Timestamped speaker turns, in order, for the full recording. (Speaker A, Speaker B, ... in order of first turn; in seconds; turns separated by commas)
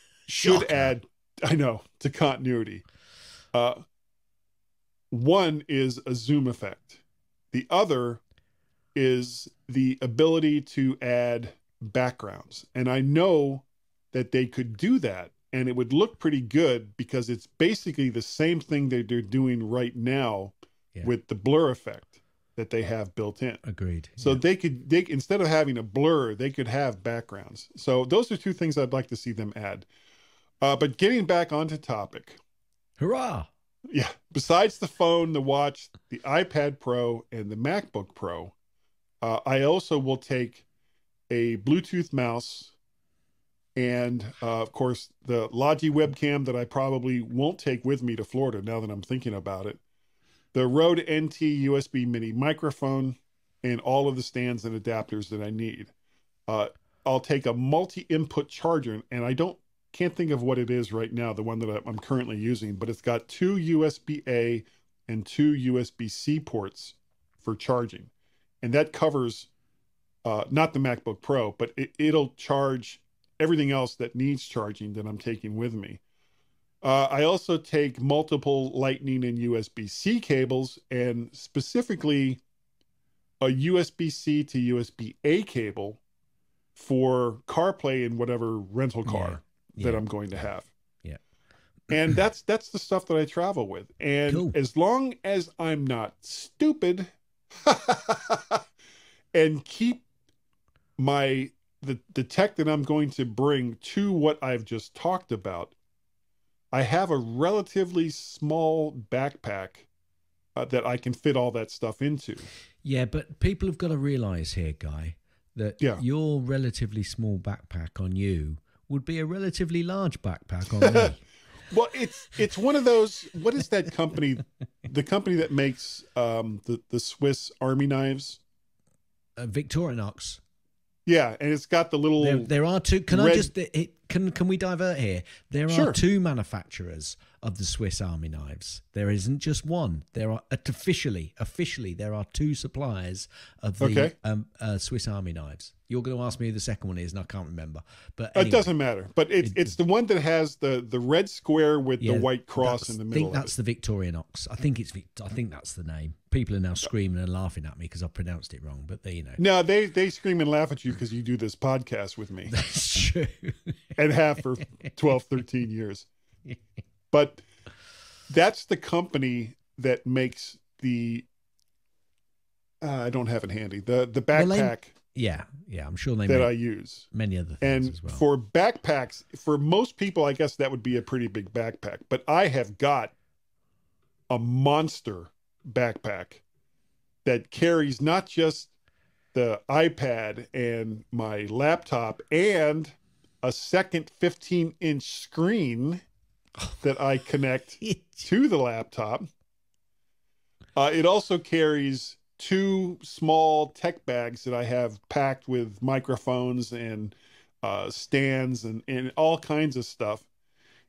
Speaker A: 0.3-2.8, Speaker B: 0.4-0.9, Speaker A: 3.5-3.8, Speaker A: 5.1-8.2, Speaker A: 8.9-23.6, Speaker B: 23.6-24.4, Speaker A: 24.2-29.9, Speaker A: 30.6-32.4, Speaker B: 33.0-33.5, Speaker A: 33.9-38.5, Speaker A: 39.2-40.6, Speaker A: 41.3-42.7, Speaker A: 43.8-49.8, Speaker A: 50.5-55.9, Speaker A: 56.5-68.1, Speaker A: 68.6-69.5, Speaker A: 70.2-76.0, Speaker A: 76.8-82.4, Speaker A: 83.4-86.0, Speaker A: 86.8-90.7, Speaker B: 89.0-90.4, Speaker A: 91.9-97.1, Speaker B: 94.3-94.6, Speaker A: 97.7-98.6, Speaker A: 99.3-100.0, Speaker A: 101.0-105.8, Speaker A: 106.7-109.9, Speaker A: 110.5-112.5, Speaker B: 112.8-121.2, Speaker A: 120.7-121.1, Speaker A: 121.7-128.4, Speaker B: 129.4-130.4, Speaker A: 131.1-132.5, Speaker B: 132.2-148.7, Speaker A: 133.1-133.5, Speaker A: 135.7-136.0, Speaker A: 143.8-144.1, Speaker A: 148.3-153.5, Speaker B: 149.4-149.8, Speaker B: 152.0-159.4, Speaker A: 159.4-162.5, Speaker B: 162.5-163.8, Speaker A: 164.0-166.1, Speaker A: 167.1-167.4, Speaker A: 168.3-171.2, Speaker A: 172.8-174.9, Speaker B: 174.3-176.5, Speaker A: 176.2-177.1, Speaker B: 177.1-178.2, Speaker A: 177.6-183.1, Speaker A: 184.3-186.4, Speaker A: 187.2-188.7, Speaker A: 189.3-196.0, Speaker A: 196.8-199.3, Speaker B: 197.8-198.2, Speaker A: 200.8-210.2